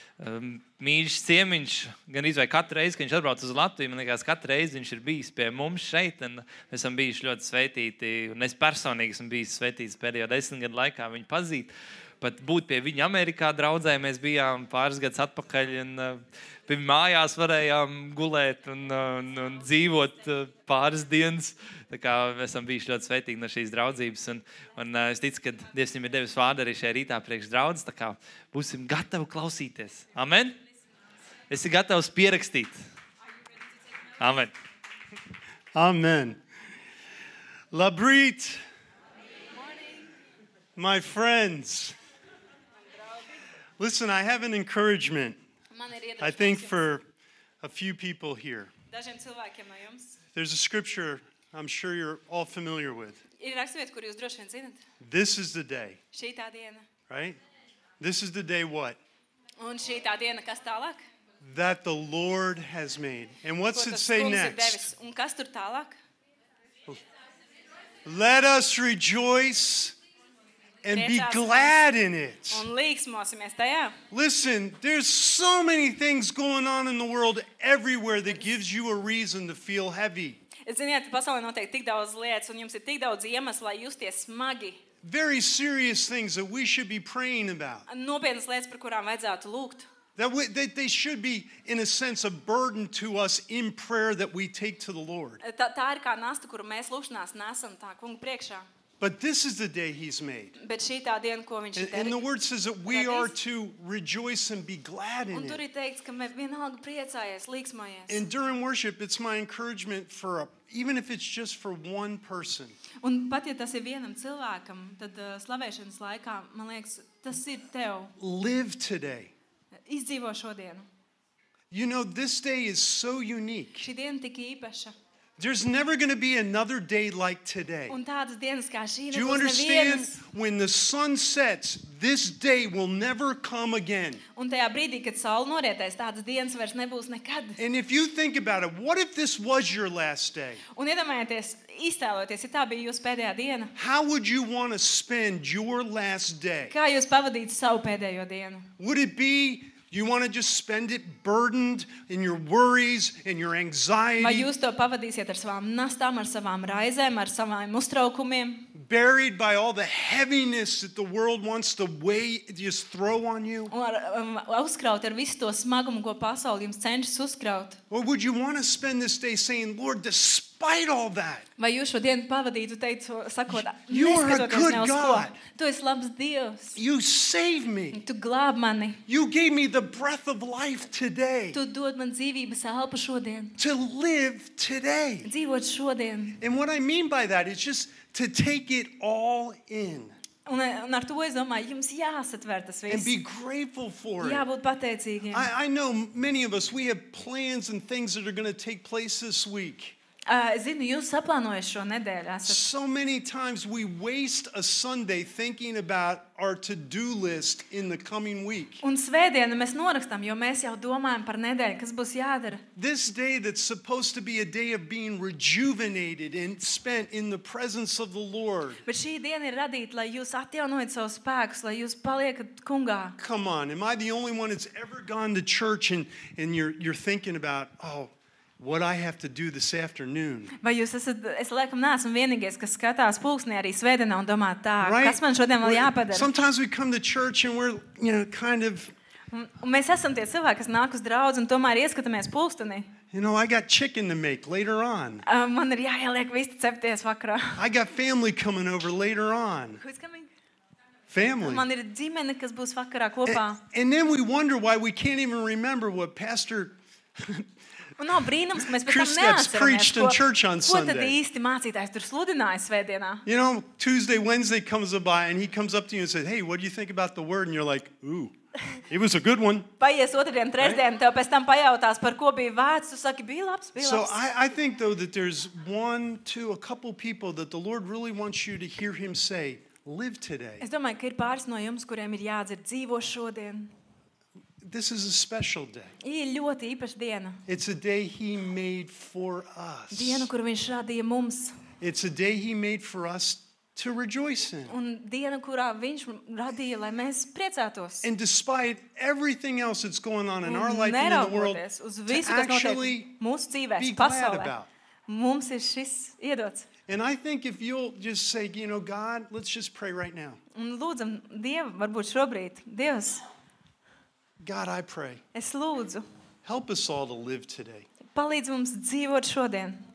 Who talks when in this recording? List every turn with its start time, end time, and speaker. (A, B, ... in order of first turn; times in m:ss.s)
0:00.2-0:30.6 A
0:31.5-0:32.8 A
0:34.2-0:34.5 A
0:35.8-0:36.4 B
0:37.7-0:38.6 B
0:40.8-0:42.0 B
0:43.8-0:45.4 B
0:45.7-0:46.8 C
0:46.2-0:47.1 B
0:47.6-0:48.7 B
0:48.9-0:50.2 C
0:50.3-0:53.2 B
0:53.4-0:54.8 C
0:55.0-0:56.0 B
0:56.1-0:56.9 C
0:57.1-0:57.4 B
0:58.0-0:59.0 B
0:59.6-1:01.0 C
1:01.4-1:04.9 B
1:03.7-1:06.0 C
1:08.0-1:10.0 B
1:10.8-1:12.7 B
1:10.9-1:11.7 C
1:12.5-1:14.0 C
1:14.1-1:20.4 B
1:20.6-1:24.8 C
1:25.0-1:27.9 B
1:27.9-1:29.9 C
1:30.2-1:35.4 B
1:35.4-1:38.6 C
1:39.0-1:40.6 B
1:40.6-1:42.2 C
1:41.8-1:45.6 B
1:42.9-1:43.4 C
1:45.3-1:48.2 C
1:48.1-1:52.8 B
1:53.0-1:58.2 C
1:58.2-1:59.3 B
1:59.9-2:00.9 C
2:01.7-2:03.9 B
2:03.8-2:04.9 C
2:05.4-2:08.0 B
2:07.9-2:10.2 C
2:09.1-2:14.2 B
2:14.4-2:17.6 C
2:17.6-2:20.6 B
2:20.7-2:23.7 C
2:23.8-2:26.8 B
2:26.7-2:28.7 C
2:28.8-2:34.5 B
2:34.2-2:38.7 C
2:38.7-2:43.7 B
2:43.7-2:47.8 C
2:47.9-2:51.5 B
2:51.6-2:56.8 C
2:53.5-2:55.4 B
2:56.8-2:58.0 B
2:57.9-2:59.0 C
2:59.1-3:01.6 B
3:01.5-3:03.6 C
3:03.6-3:05.3 B
3:05.2-3:06.4 C
3:06.4-3:10.2 B
3:10.5-3:13.1 C
3:12.9-3:14.5 B
3:14.2-3:15.5 C
3:15.3-3:20.0 B
3:20.3-3:22.6 C
3:22.4-3:28.8 B
3:28.8-3:32.6 C
3:32.7-3:38.8 B
3:38.8-3:43.2 C
3:43.2-3:50.6 B
3:50.6-3:56.3 C
3:54.8-3:58.9 B
3:59.3-4:02.9 C
4:03.1-4:05.2 B
4:05.2-4:07.6 C
4:07.6-4:09.8 B
4:09.8-4:10.3 C
4:11.1-4:11.7 B
4:11.4-4:13.6 C
4:13.3-4:17.5 B
4:18.0-4:23.2 C
4:18.6-4:21.2 B
4:23.3-4:28.3 B
4:28.9-4:29.7 B
4:29.8-4:34.2 C
4:33.8-4:40.6 B
4:40.6-4:43.7 C
4:44.6-4:45.9 B
4:46.0-4:47.4 C
4:47.5-4:50.3 B
4:49.9-4:51.6 C
4:51.8-4:54.8 B
4:54.7-4:58.1 C
4:58.0-5:03.1 B
5:00.4-5:04.5 C
5:03.8-5:04.7 B
5:05.1-5:06.7 C
5:06.9-5:10.4 B
5:10.5-5:13.2 C
5:14.4-5:15.2 B
5:15.3-5:16.0 C
5:16.4-5:17.9 B
5:18.1-5:19.8 C